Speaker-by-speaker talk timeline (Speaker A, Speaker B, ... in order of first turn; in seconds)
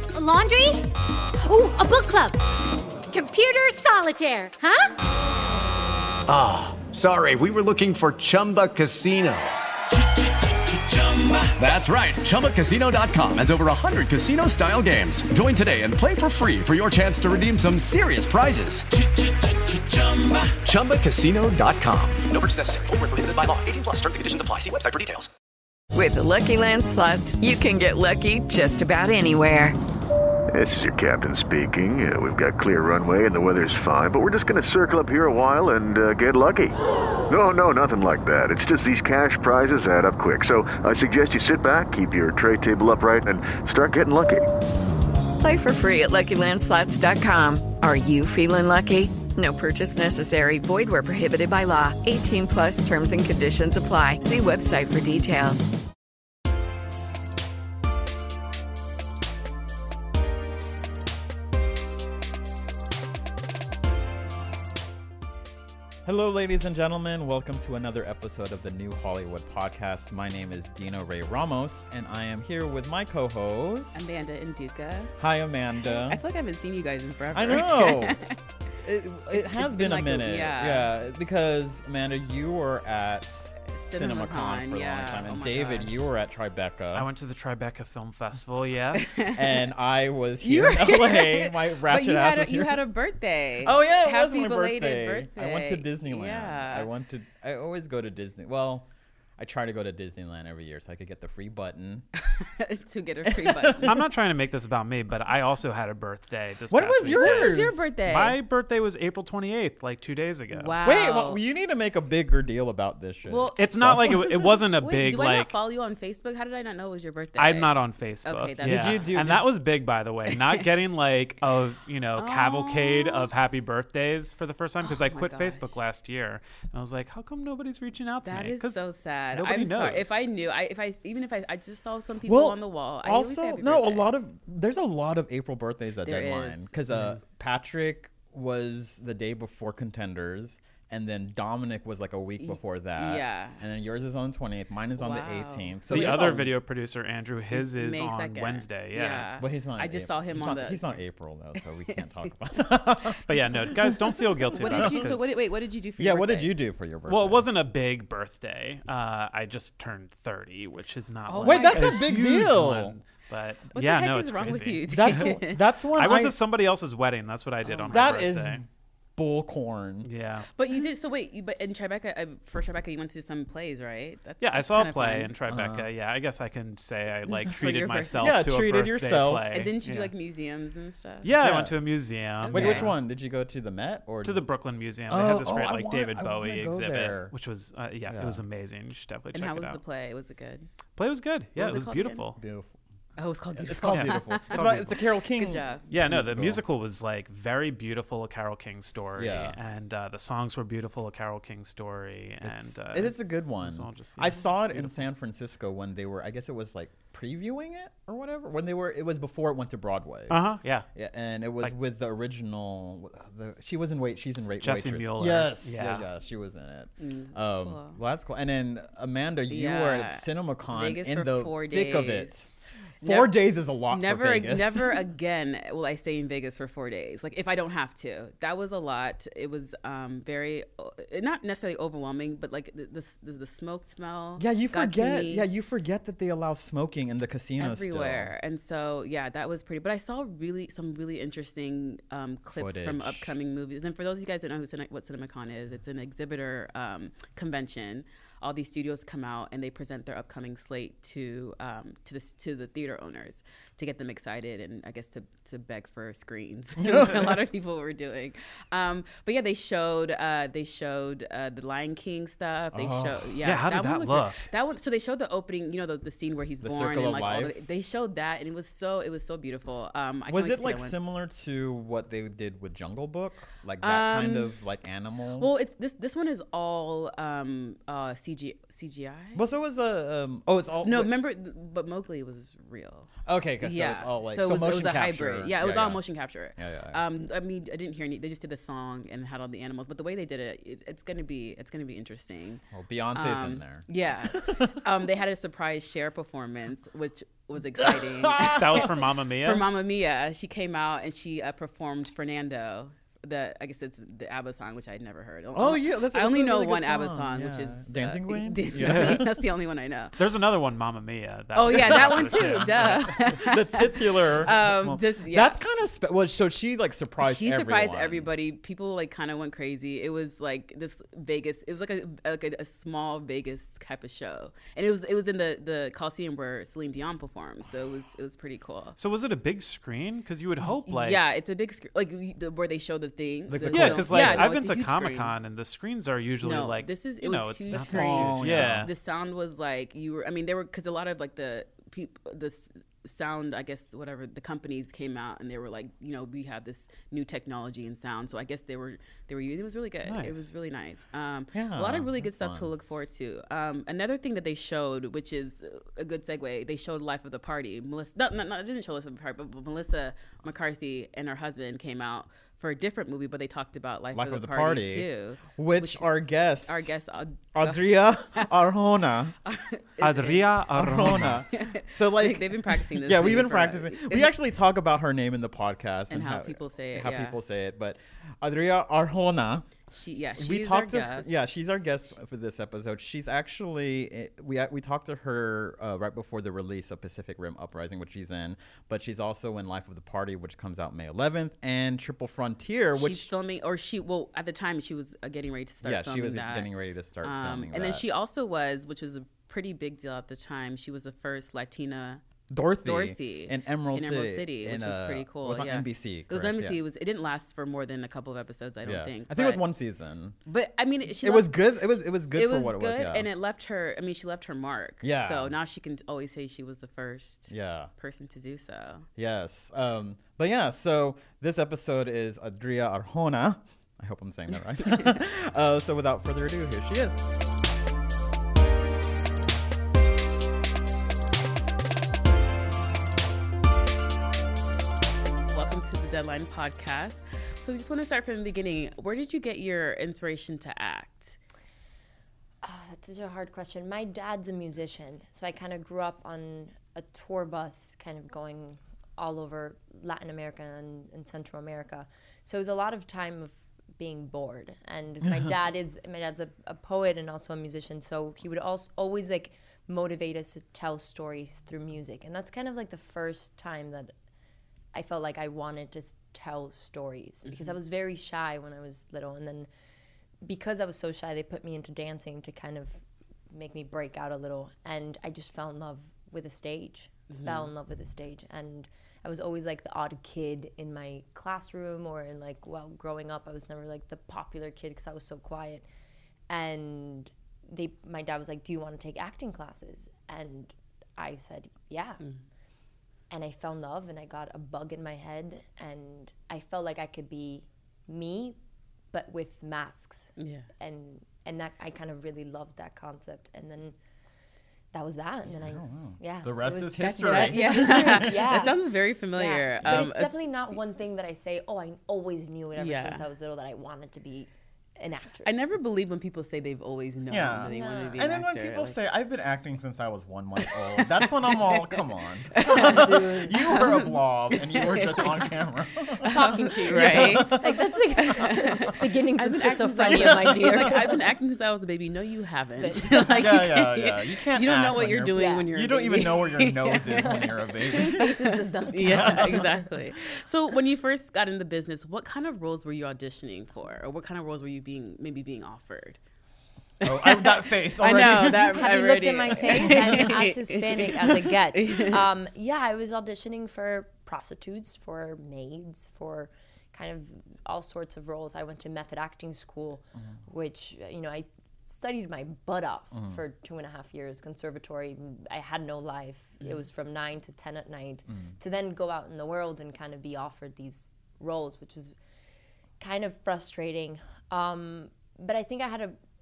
Speaker A: 0.1-2.4, 3.1-4.9
Speaker B: 6.3-9.6, 10.9-19.0, 19.6-25.3
Speaker C: 25.9-29.8, 45.4-55.7
Speaker D: 30.5-44.5
Speaker E: 66.0-74.1, 75.2-76.2, 77.3-78.2, 78.8-87.1, 89.3-92.8, 93.6-98.9, 99.4-102.1, 103.3-104.0, 106.7-107.9, 110.8-114.5, 118.6-119.4, 132.2-146.5, 149.4-155.3, 156.0-157.5, 161.4-162.9, 164.9-166.4, 167.9-168.6, 169.2-170.1, 175.5-175.9, 178.2-179.6, 181.4-181.8, 182.4-184.5, 185.1-187.3, 188.1-188.4, 192.4-192.7, 193.6-196.6, 199.2-199.6, 202.4-222.5, 223.0-225.0, 234.4-238.3, 242.5-243.3, 256.8-257.4, 262.7-263.3, 266.6-267.6, 270.3-275.5, 279.4-281.1, 283.3-286.0, 286.6-287.0, 292.7-294.8, 297.8-298.9, 305.6-309.3, 311.7-318.3, 333.5-334.7, 337.7-338.9, 351.5-352.7, 364.1-366.9, 367.6-369.4, 370.2-379.7, 380.4-393.3, 395.8-398.1, 402.5-406.8, 408.8-410.4, 411.2-413.3, 415.0-415.6, 417.5-417.9, 419.2-427.3, 505.6-508.7, 509.8-510.1, 517.3-528.8, 530.0-531.0, 533.3-539.8, 547.0-550.3, 563.1-563.4, 568.3-568.6
Speaker F: 73.9-75.1, 75.8-78.4, 79.3-80.9, 83.7-86.0, 89.0-89.7, 90.4-96.9, 102.4-104.0, 107.0-108.4, 110.5-111.4, 113.3-119.2, 120.3-120.7, 122.2-123.3, 124.8-125.8, 128.2-134.1, 136.0-137.2, 142.4-143.6, 145.0-146.4, 147.5-151.0, 154.5-156.6, 161.3-162.1, 163.7-165.6, 167.7-168.1, 170.6-175.3, 177.5-178.3, 179.5-181.3, 182.4-182.9, 189.3-190.7, 191.6-192.2, 193.2-195.9, 217.0-218.0, 219.5-222.3, 223.0-235.4, 237.6-271.0, 273.8-274.6, 275.4-279.4, 280.8-310.2, 311.5-315.6, 317.2-329.0, 330.9-335.3, 336.4-368.6, 369.4-370.4, 371.5-374.3, 376.1-377.4, 379.9-381.5, 392.9-402.2, 402.8-409.6, 410.5-411.7, 412.3-419.1, 435.5-441.4, 467.5-467.8, 477.3-477.7, 500.4-500.7, 507.2-510.4, 512.8-513.3, 515.5-519.0, 520.7-522.0, 522.5-525.5, 526.2-527.6, 528.2-546.2, 547.0-552.2
Speaker G: 86.9-89.3, 103.8-110.8, 113.5-115.6, 117.4-130.2, 145.9-149.3, 153.3-155.3, 157.1-165.3, 165.9-168.6, 170.1-170.5, 174.4-180.1, 181.2-183.0, 184.2-189.8, 191.0-192.4, 193.8-194.9, 195.9-205.1, 210.3-210.9, 214.6-216.1, 263.4-264.4, 298.5-299.7, 308.8-309.3, 310.2-313.1, 329.0-331.2, 333.7-338.9, 350.1-350.5, 370.0-371.4
Speaker H: 442.6-464.1, 464.9-469.7, 470.4-485.9, 486.5-492.2, 493.3-498.6, 499.1-504.0, 504.9-508.8, 509.3-515.7, 517.7-518.2, 522.6-523.8, 526.2-531.2, 532.8-533.5, 535.3-535.7, 537.2-539.9, 548.1-572.1, 573.0-576.2